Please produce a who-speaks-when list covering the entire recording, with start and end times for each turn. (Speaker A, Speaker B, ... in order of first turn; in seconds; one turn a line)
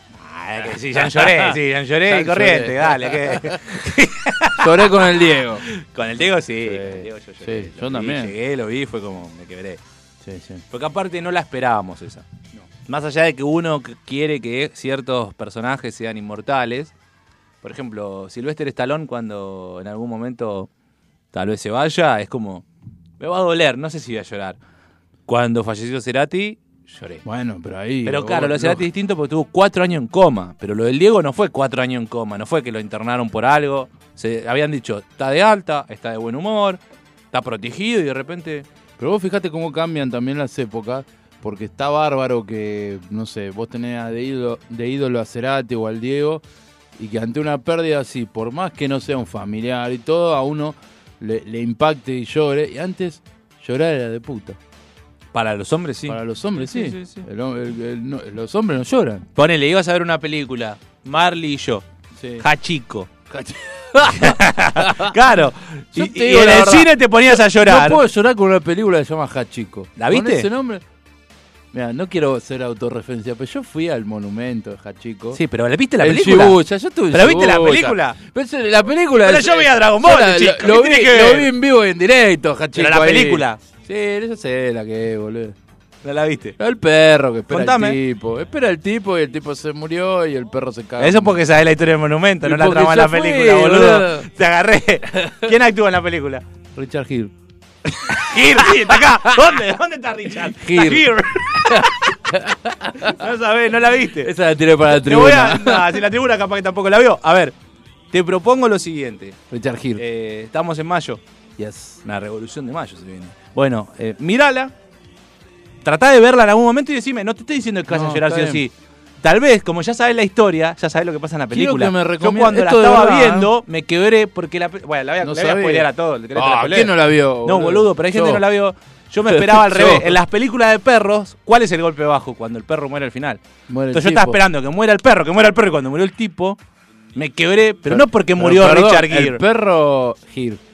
Speaker A: 0.2-9.8
Speaker B: 1.0-1.6
Speaker B: 2.1-3.6
Speaker B: 4.6-5.7
Speaker B: 6.6-8.3
Speaker B: 10.2-10.6
Speaker A: 10.7-16.9
Speaker A: 17.6-20.7
Speaker A: 21.3-22.6
Speaker A: 23.2-24.6
Speaker A: 25.3-27.2
Speaker B: 27.2-28.9
Speaker A: 28.1-36.8
Speaker A: 37.3-38.7
Speaker B: 39.0-46.4
Speaker B: 47.0-54.6
Speaker A: 55.3-57.3
Speaker B: 56.1-59.3
Speaker A: 59.4-61.9
Speaker B: 62.2-62.5
Speaker A: 62.4-63.1
Speaker B: 63.3-65.1
Speaker A: 64.0-68.0
Speaker B: 66.0-70.8
Speaker A: 70.0-70.5
Speaker B: 71.7-75.4
Speaker A: 75.3-78.2
Speaker B: 76.0-85.6
Speaker A: 79.2-81.5
Speaker A: 82.8-83.6
Speaker A: 86.0-86.6
Speaker B: 86.6-91.4
Speaker A: 87.5-88.0
Speaker A: 91.0-96.4
Speaker B: 92.4-94.3
Speaker B: 95.2-95.5
Speaker B: 96.8-97.3
Speaker A: 98.1-102.2
Speaker B: 98.3-99.0
Speaker B: 100.5-103.2
Speaker A: 103.0-104.3
Speaker B: 104.2-106.0
Speaker A: 104.9-107.5
Speaker A: 108.1-109.4
Speaker B: 109.5-110.0
Speaker A: 110.0-111.2
Speaker B: 111.6-112.0
Speaker A: 112.0-114.7
Speaker A: 115.8-133.4
Speaker B: 117.9-118.6
Speaker B: 121.5-123.5
Speaker B: 125.2-128.4
Speaker B: 129.3-130.2
Speaker B: 133.7-134.4
Speaker A: 133.9-136.6
Speaker A: 137.2-139.4
Speaker B: 137.9-140.6